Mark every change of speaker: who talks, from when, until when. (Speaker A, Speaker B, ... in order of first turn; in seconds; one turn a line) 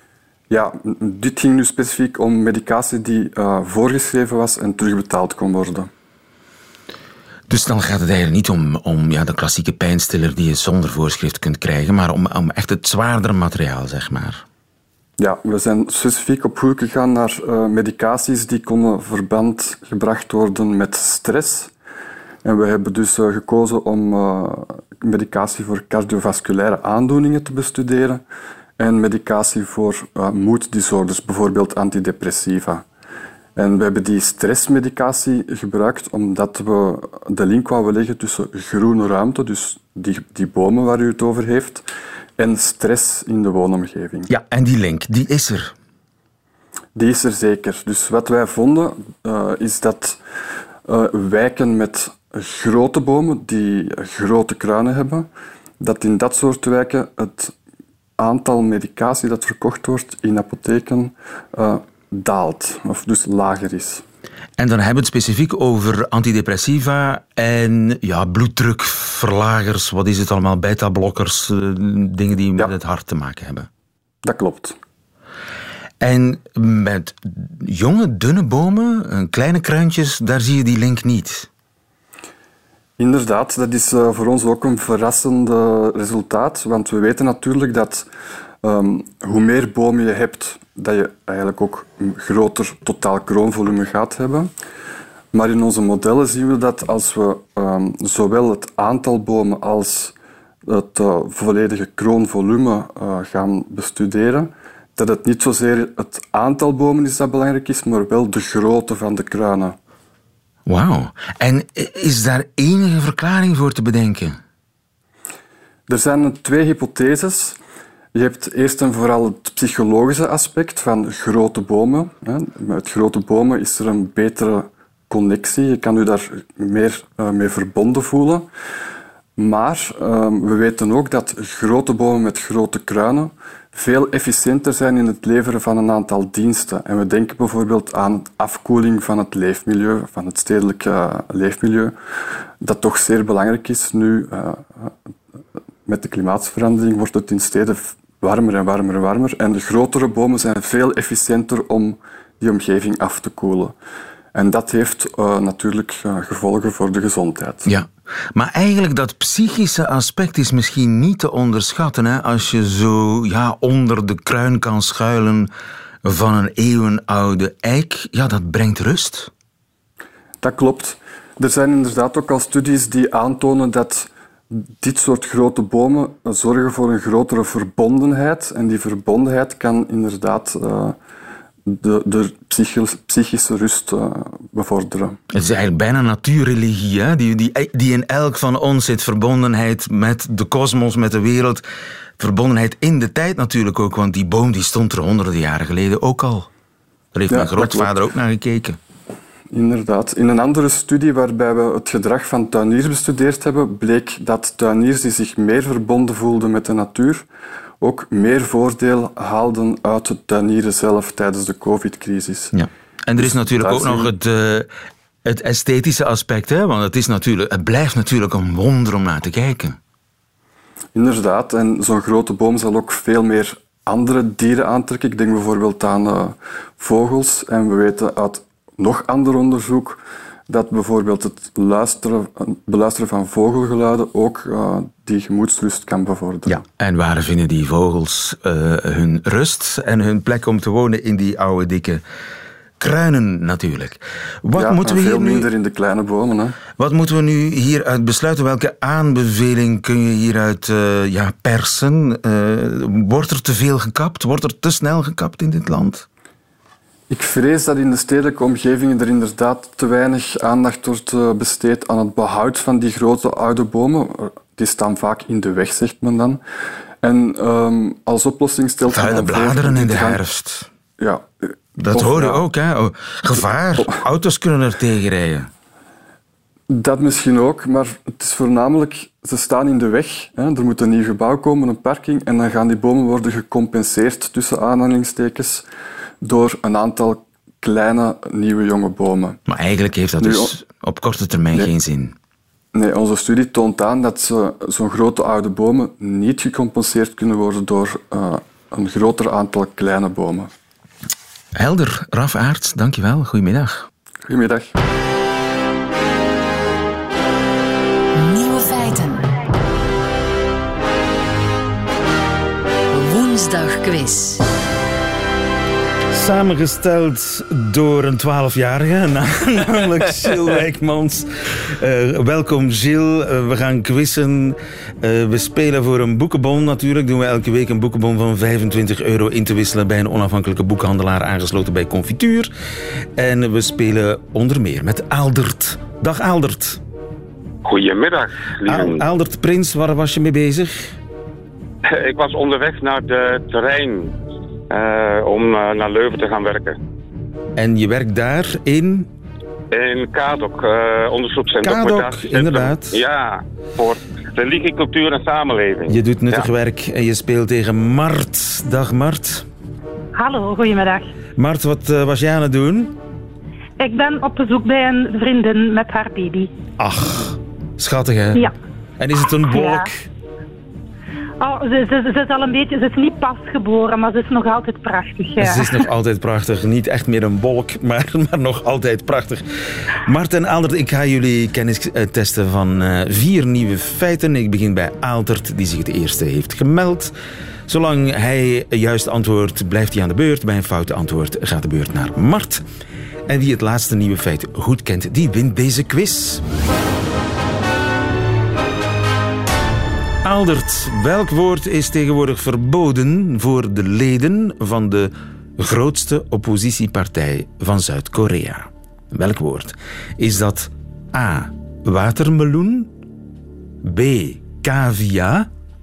Speaker A: 0.5-5.9
Speaker B: 7.5-14.4
Speaker A: 15.2-21.7
Speaker A: 22.4-28.2
Speaker A: 28.8-32.9
Speaker A: 33.6-41.9
Speaker A: 42.4-44.3
Speaker B: 44.3-45.8
Speaker A: 47.0-50.2
Speaker A: 50.9-55.3
Speaker A: 55.8-57.5
Speaker A: 58.2-64.0
Speaker B: 64.6-73.7
Speaker A: 74.2-74.8
Speaker B: 76.0-81.5
Speaker A: 83.0-88.1
Speaker A: 88.6-94.5
Speaker A: 95.3-100.1
Speaker A: 100.7-109.8
Speaker B: 110.7-114.4
Speaker A: 115.9-117.6
Speaker A: 118.2-128.5
Speaker A: 129.4-141.9
Speaker A: 142.6-144.9
Speaker A: 145.9-153.7
Speaker A: 154.3-157.7
Speaker B: 157.7-165.5
Speaker B: 166.0-169.3
Speaker A: 170.4-181.0
Speaker A: 181.7-185.2
Speaker B: 185.3-191.6
Speaker B: 192.2-196.5
Speaker B: 197.1-198.8
Speaker A: 197.3-197.9
Speaker A: 199.5-207.2
Speaker A: 207.8-212.5
Speaker B: 212.5-214.7
Speaker A: 213.2-214.1
Speaker B: 215.2-219.8
Speaker A: 220.9-236.6
Speaker B: 236.5-242.0
Speaker B: 242.8-245.5
Speaker A: 244.6-246.6
Speaker B: 246.8-256.1
Speaker A: 257.1-266.4
Speaker A: 267.0-270.2
Speaker B: 268.9-270.7
Speaker A: 271.0-272.4
Speaker B: 271.8-275.5
Speaker A: 276.7-285.6
Speaker A: 286.2-289.4
Speaker B: 289.5-292.1
Speaker A: 290.2-290.5
Speaker A: 292.7-300.5
Speaker B: 301.6-303.9
Speaker A: 304.3-304.7
Speaker C: 308.1-309.3
Speaker C: 312.9-314.4
Speaker B: 316.1-332.5
Speaker B: 333.2-336.8
Speaker D: 337.6-339.0
Speaker B: 338.6-340.9
Speaker D: 342.0-344.1
Speaker D: 344.7-346.7
Speaker B: 347.6-349.1
Speaker D: 349.7-355.9
Speaker B: 351.6-353.0
Speaker B: 355.9-359.5
Speaker E: 360.1-361.1
Speaker B: 361.4-363.0
Speaker E: 363.8-366.5
Speaker B: 366.8-370.1
Speaker E: 369.4-369.9
Speaker E: 371.4-375.9
Speaker B: 375.4-387.1
Speaker B: 387.7-392.6
Speaker B: 393.3-396.4
Speaker B: 400.2-412.9
Speaker B: 413.8-415.5